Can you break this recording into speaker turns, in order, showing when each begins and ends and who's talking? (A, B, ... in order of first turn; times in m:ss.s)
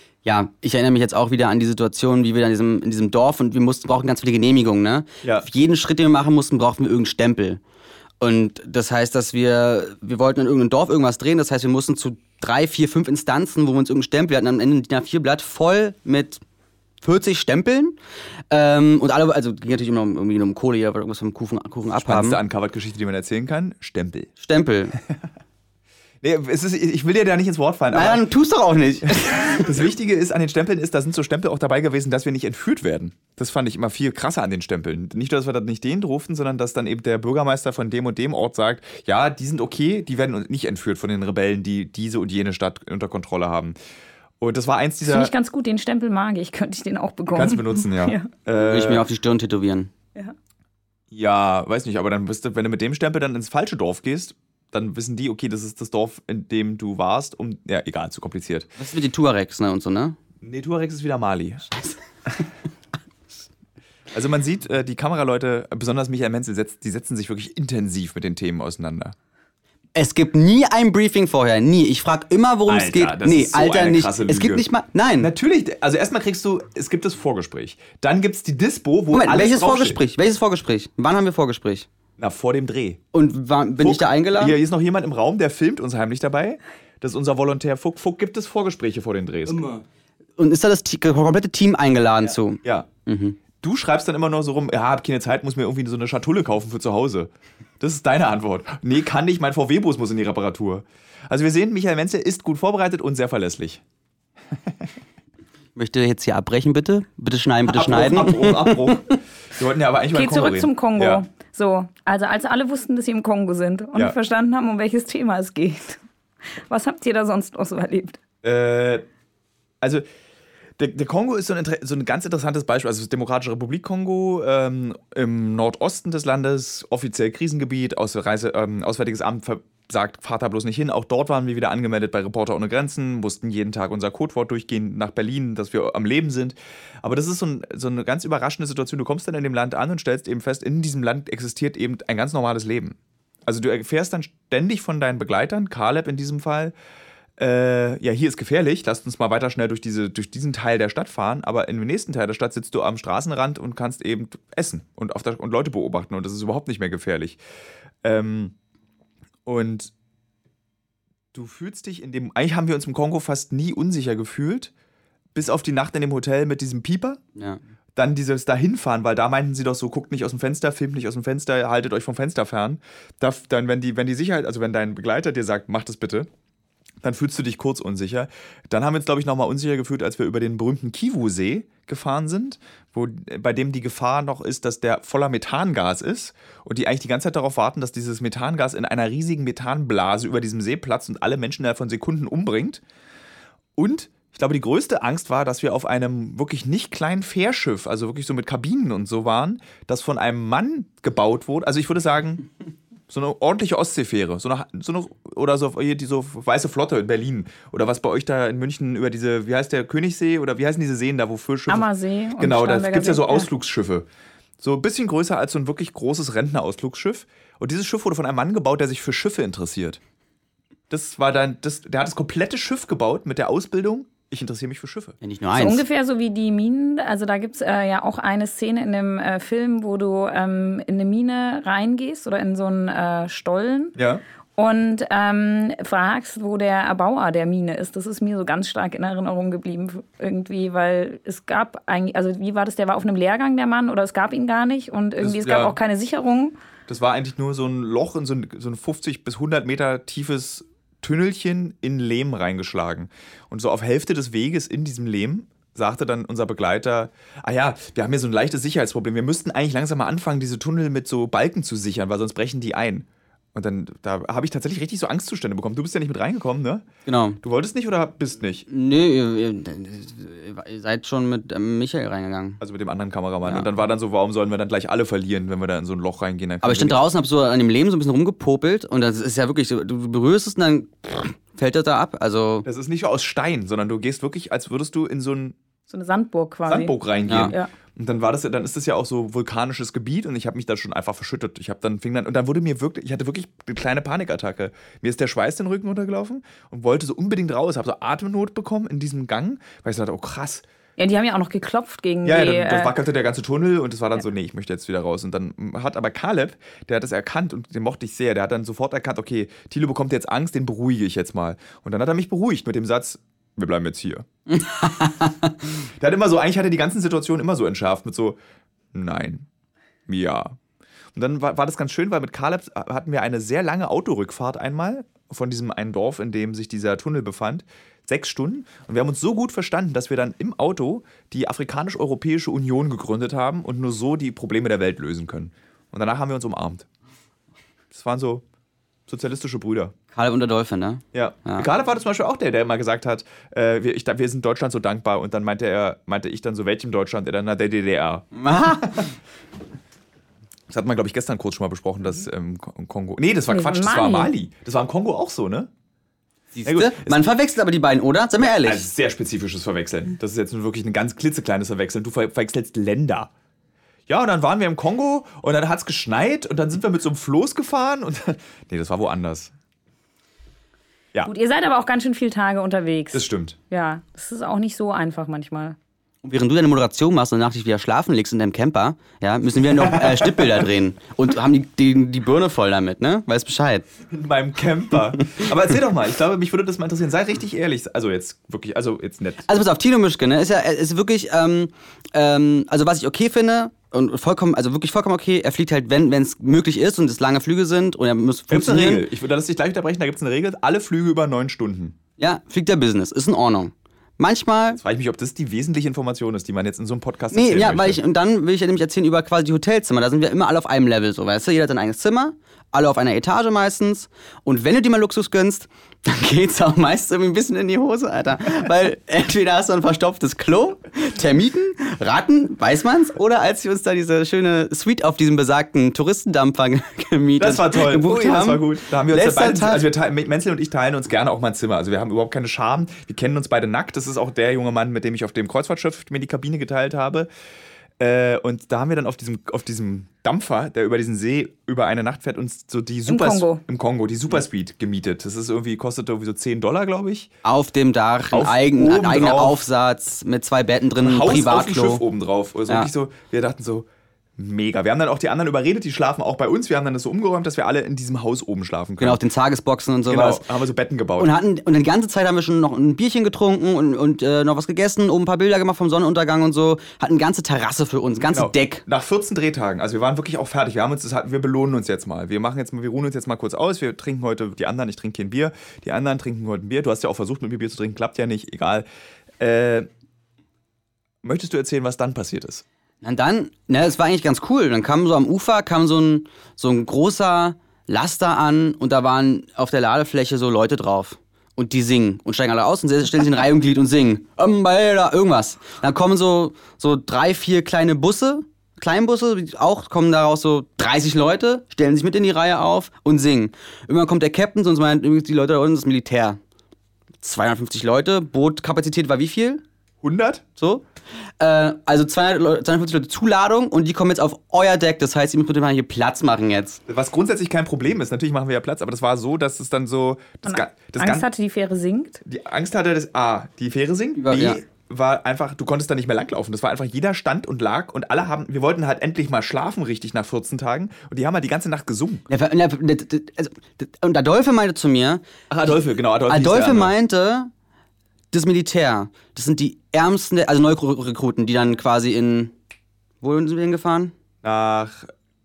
0:00.2-0:07.6 A
0:08.2-0:16.4 A
0:17.0-0:18.0 A
0:18.5-0:22.4 A
0:21.9-0:24.3 B
0:24.4-0:25.0 A
0:26.2-0:28.2 B
0:27.9-0:29.8 A
0:29.0-0:43.7 B
0:44.4-0:45.3 B
0:45.0-0:48.3 C
0:47.3-0:49.0 B
0:48.5-0:49.9 A
0:51.1-0:58.7 B
0:58.8-1:00.2 A
1:00.4-1:01.7 B
1:04.1-1:09.1 B
1:09.9-1:15.3 A
1:12.7-1:14.6 B
1:15.2-1:20.0 B
1:19.1-1:21.9 A
1:22.2-1:23.0 B
1:23.1-1:24.6 A
1:23.8-1:29.8 B
1:29.5-1:29.8 A
1:30.4-1:33.4 A
1:32.6-1:32.9 B
1:33.6-1:43.8 B
1:45.8-1:49.0 A
1:47.7-1:51.2 B
1:50.1-1:56.0 C
1:56.7-1:58.2 C
1:58.4-1:59.0 B
2:00.8-2:26.7 B
2:27.4-2:37.4 B
2:38.0-2:38.5 B
2:39.4-2:39.9 B
2:41.3-2:44.7 B
2:45.3-2:47.2 B
2:48.0-2:56.3 B
2:57.0-3:12.8 B
3:13.8-3:22.4 B
3:23.1-3:31.9 B
3:31.7-3:33.5 C
3:32.4-3:34.0 B
3:34.6-3:40.0 B
3:40.9-3:45.2 B
3:45.2-3:45.8 A
3:45.5-3:54.0 C
3:54.0-3:54.2 B
3:54.6-4:06.6 C
4:05.2-4:05.8 B
4:06.9-4:26.8 B
4:27.0-4:27.4 A
4:27.4-4:28.6 B
4:28.7-4:32.6 A
4:32.6-4:37.0 B
4:36.6-4:42.7 A
4:42.6-4:45.6 B
4:45.9-4:46.9 C
4:46.7-5:00.6 B
4:47.3-4:47.5 A
5:01.0-5:03.0 C
5:02.2-5:14.3 B
5:14.5-5:15.5 A
5:16.0-5:18.4 B
5:18.9-5:19.5 B
5:20.1-5:20.6 B
5:21.2-5:36.9 B
5:37.9-5:38.4 B
5:39.1-5:39.9 B
5:40.1-5:41.7 A
5:41.1-5:49.0 B
5:48.3-5:49.0 A
5:50.7-5:55.7 B
5:53.5-5:54.3 C
5:56.5-5:58.9 A
5:56.6-5:57.2 B
5:58.4-6:03.3 B
6:04.1-6:09.5 B
6:11.2-6:15.8 C
6:13.1-6:13.6 B
6:16.2-6:23.8 A
6:19.9-6:20.4 B
6:24.1-6:29.5 B
6:29.4-6:39.1 A
6:38.5-6:42.0 B
6:42.2-6:44.8 A
6:44.7-6:48.0 B
6:47.3-7:09.9 A
7:07.4-7:17.3 B
7:18.0-7:27.3 B
7:23.1-7:23.6 C
7:27.4-7:32.0 A
7:28.3-7:29.6 B
7:31.0-7:39.2 B
7:39.0-7:40.5 A
7:40.1-7:41.3 B
7:41.2-7:48.8 A
7:48.3-7:58.8 B
7:59.4-7:59.9 B
8:01.2-8:02.6 B
8:03.0-8:26.4 A
8:27.2-8:29.6 A
8:30.0-8:30.4 B
8:30.6-8:30.8 A
8:31.4-8:36.8 A
8:36.9-8:41.3 B
8:40.4-8:42.2 C
8:42.2-8:52.2 B
8:44.2-8:44.6 A
8:52.3-8:55.2 A
8:55.5-8:56.9 B
8:56.3-8:57.5 A
8:58.3-9:02.5 A
9:03.2-9:04.1 A
9:04.4-9:05.1 B